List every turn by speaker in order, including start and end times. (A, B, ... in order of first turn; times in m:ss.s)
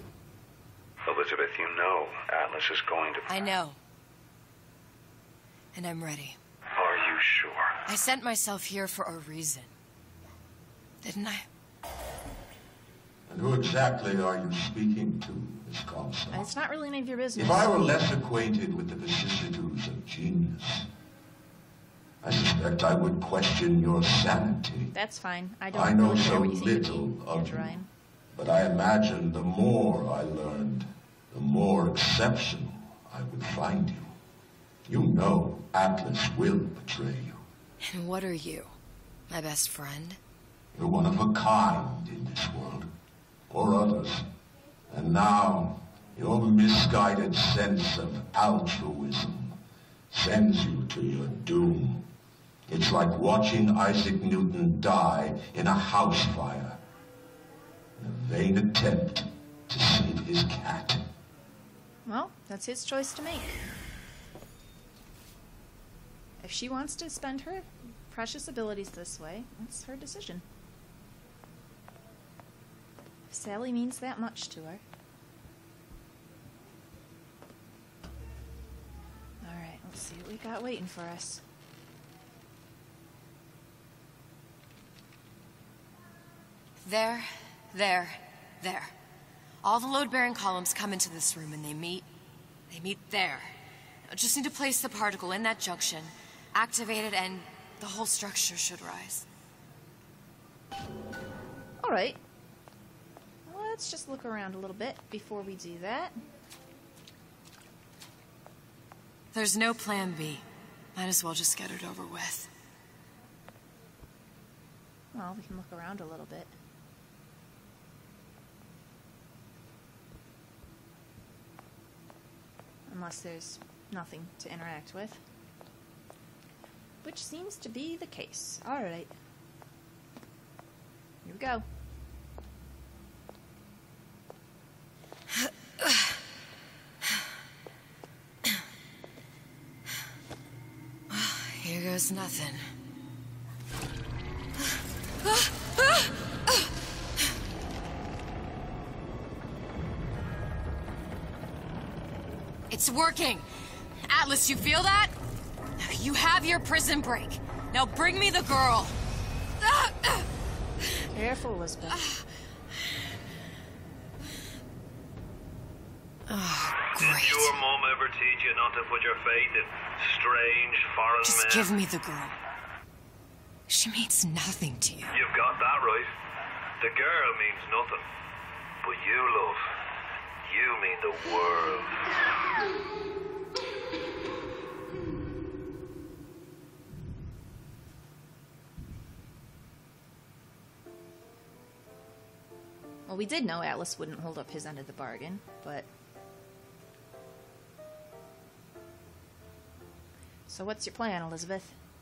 0:01.0-0:03.3 A
0:03.3-0:03.8 B
0:05.7-0:06.4 B
0:06.8-0:07.8 A
0:07.9-0:09.7 B
0:11.0-0:11.5 B
0:13.3-0:16.5 C
0:16.3-0:18.0 D
0:17.4-0:20.9 C
0:22.2-0:24.9 C
0:24.9-0:27.9 D
0:25.7-0:27.7 C
0:28.3-0:34.2 C
0:34.9-0:37.4 C
0:37.8-0:38.8 B
0:39.3-0:40.2 B
0:40.7-0:42.9 C
0:43.5-0:44.3 C
0:44.9-0:49.6 C
0:50.1-0:52.1 C
0:52.7-0:56.8 C
0:58.0-1:01.1 C
1:02.1-1:03.6 D
1:06.4-1:10.4 D
1:13.3-1:14.8 D
1:19.4-1:21.4 D
1:26.8-1:28.9 B
1:29.6-1:32.1 B
1:32.7-1:33.6 B
1:34.1-1:39.3 B
1:41.8-1:42.2 D
1:43.5-1:46.2 D
1:49.3-1:52.5 B
1:55.1-1:56.5 D
2:02.9-2:05.2 D
2:07.0-2:09.1 D
2:11.2-2:11.6 D
2:21.1-2:22.7 B
2:25.2-2:26.5 B
2:32.7-2:33.5 B
2:34.1-2:35.2 B
2:35.8-2:39.0 B
2:39.6-2:40.3 B
2:41.1-2:42.1 D
2:46.3-2:47.6 B
2:47.0-2:51.7 E
2:51.2-2:52.4 B
2:53.7-2:55.1 B
2:55.1-2:56.1 E
2:56.8-2:58.0 E
2:58.8-2:59.6 E
3:00.4-3:02.0 E
3:13.1-3:15.9 D
3:20.5-3:21.8 D